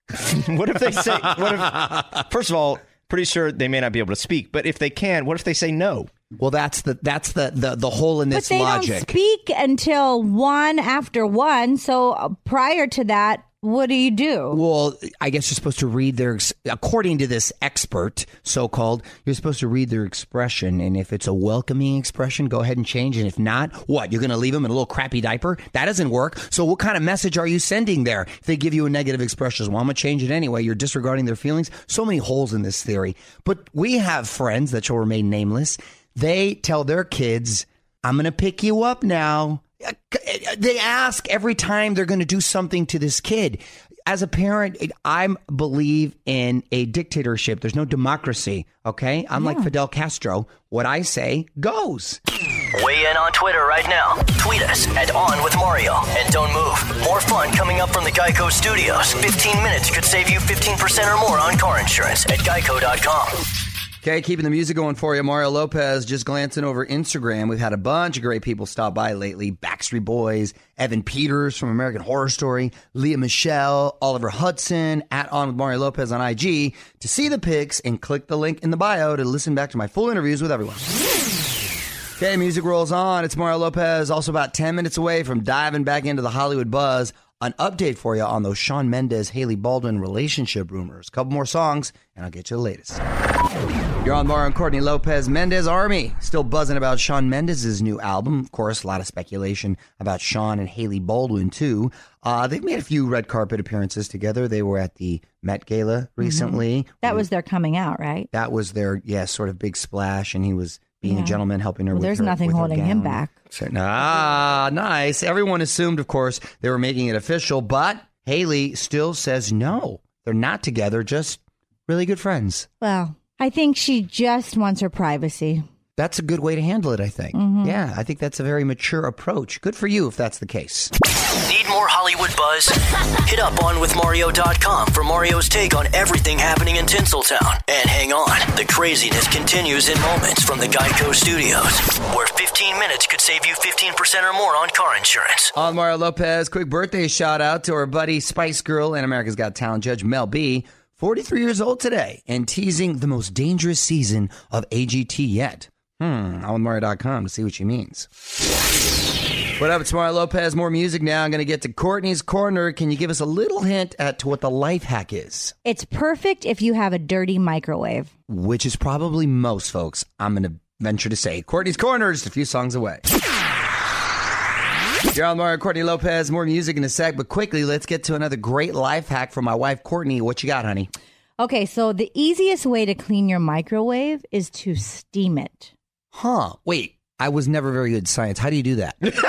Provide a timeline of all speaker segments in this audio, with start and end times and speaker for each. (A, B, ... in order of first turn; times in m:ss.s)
0:00.2-0:06.1 A
0:06.4-0:09.2 B
0:08.3-0:14.6 C
0:14.5-0:52.2 B
0:49.4-0:49.7 C
0:52.8-1:03.4 D
1:04.0-1:20.8 B
1:22.2-1:33.0 B
1:34.0-1:47.3 B
1:46.2-1:48.3 C
1:48.3-2:02.7 B
1:51.0-1:53.3 C
2:02.8-2:05.6 C
2:06.0-2:10.9 B
2:07.3-2:07.8 C
2:11.4-2:25.5 D
2:25.5-2:38.1 B
2:39.6-2:45.5 B
2:45.6-2:48.1 C
2:48.3-2:53.0 B
2:55.1-3:00.9 B
3:01.4-3:05.7 C
3:06.1-3:09.1 B